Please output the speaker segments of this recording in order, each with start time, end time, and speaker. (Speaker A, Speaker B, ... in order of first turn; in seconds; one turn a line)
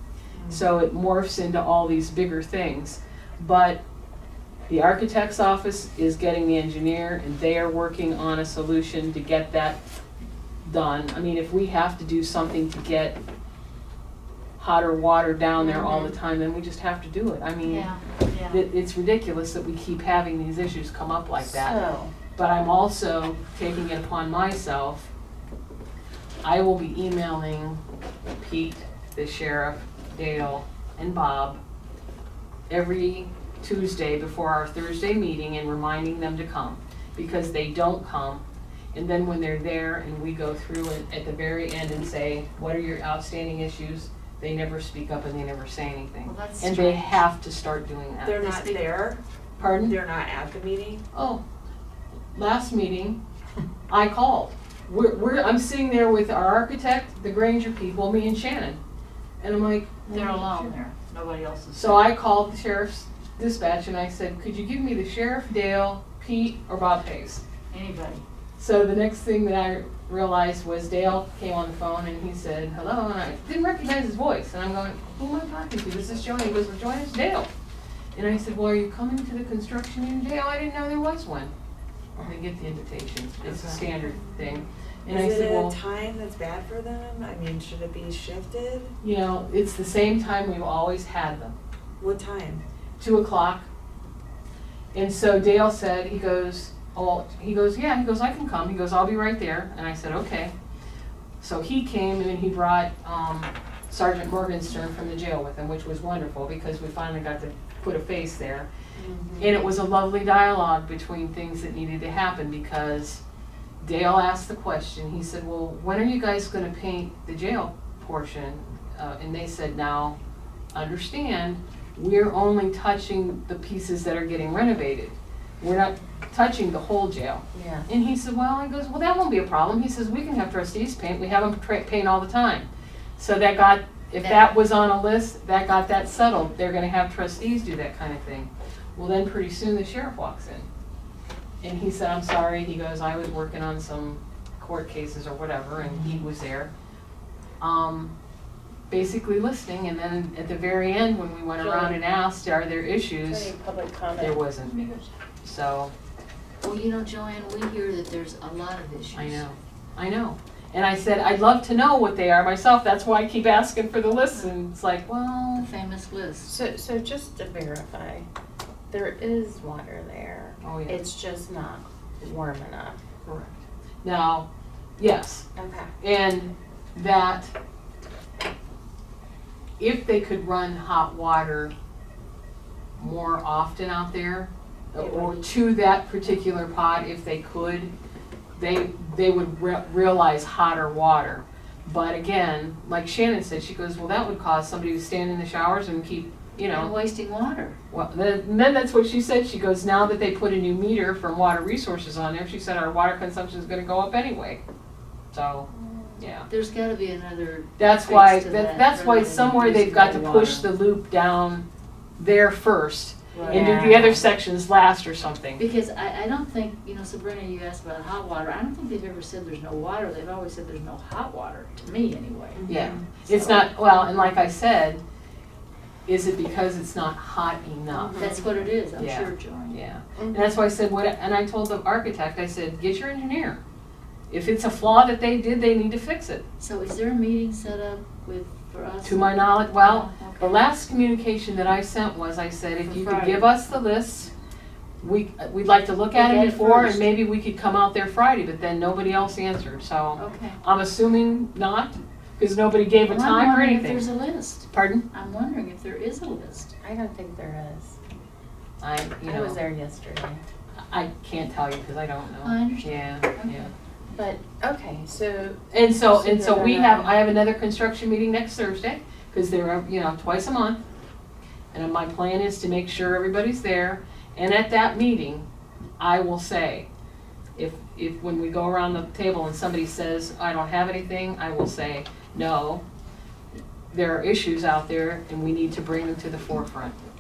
Speaker A: 0.5-3.8
Speaker A: 4.7-9.8
Speaker A: 10.6-13.2
Speaker A: 14.6-17.9
Speaker B: 15.6-16.1
Speaker C: 17.6-18.6
Speaker A: 18.5-21.8
Speaker B: 21.4-22.1
Speaker A: 22.4-25.1
Speaker A: 26.4-27.8
Speaker A: 28.4-31.6
Speaker A: 32.7-38.4
Speaker A: 38.9-48.4
Speaker C: 46.2-47.2
Speaker D: 48.3-51.0
Speaker C: 48.3-48.9
Speaker A: 49.6-50.0
Speaker A: 51.1-51.4
Speaker A: 52.3-53.2
Speaker A: 53.9-58.8
Speaker A: 59.4-60.6
Speaker C: 60.1-62.1
Speaker A: 61.7-67.4
Speaker C: 67.7-68.2
Speaker A: 68.6-77.5
Speaker A: 78.2-81.5
Speaker A: 82.2-85.8
Speaker B: 83.5-83.8
Speaker D: 85.1-88.9
Speaker B: 85.3-85.6
Speaker A: 89.0-91.5
Speaker D: 92.0-92.6
Speaker A: 93.0-93.7
Speaker A: 94.9-100.5
Speaker A: 101.4-108.7
Speaker B: 109.0-109.6
Speaker A: 109.4-113.2
Speaker A: 113.8-120.2
Speaker A: 120.7-140.7
Speaker B: 127.5-127.9
Speaker C: 134.2-134.5
Speaker A: 141.6-146.7
Speaker A: 147.6-148.1
Speaker A: 148.9-153.5
Speaker B: 151.6-152.0
Speaker B: 153.3-154.4
Speaker A: 154.2-154.9
Speaker A: 155.4-155.9
Speaker C: 156.6-159.4
Speaker A: 159.1-165.7
Speaker C: 165.6-166.5
Speaker B: 166.4-168.3
Speaker B: 168.9-173.0
Speaker A: 170.6-171.0
Speaker A: 173.3-174.5
Speaker A: 175.0-175.5
Speaker B: 175.6-175.9
Speaker A: 176.0-177.5
Speaker A: 179.8-181.7
Speaker A: 183.0-187.9
Speaker B: 185.0-185.4
Speaker A: 188.6-196.9
Speaker C: 196.7-197.8
Speaker A: 197.9-204.6
Speaker A: 205.3-205.7
Speaker B: 205.7-206.2
Speaker A: 206.2-206.5
Speaker C: 206.5-210.7
Speaker A: 207.8-211.7
Speaker A: 212.2-215.6
Speaker C: 213.3-213.8
Speaker B: 213.4-214.3
Speaker C: 215.6-222.7
Speaker B: 222.6-223.1
Speaker A: 222.7-225.0
Speaker C: 223.3-223.7
Speaker A: 226.1-228.2
Speaker B: 227.9-228.5
Speaker C: 228.2-229.8
Speaker A: 229.0-233.6
Speaker B: 230.2-230.6
Speaker A: 234.3-236.4
Speaker C: 236.6-240.7
Speaker A: 239.0-244.3
Speaker C: 242.8-243.5
Speaker A: 245.0-254.1
Speaker C: 246.1-247.1
Speaker C: 250.2-250.6
Speaker C: 253.0-256.7
Speaker A: 254.7-255.0
Speaker B: 256.8-258.0
Speaker A: 258.8-259.6
Speaker B: 259.2-260.4
Speaker A: 260.9-263.7
Speaker C: 262.4-263.7
Speaker B: 264.1-267.2
Speaker A: 265.7-270.8
Speaker A: 271.7-275.4
Speaker A: 276.0-276.9
Speaker A: 277.6-282.8
Speaker A: 283.9-287.0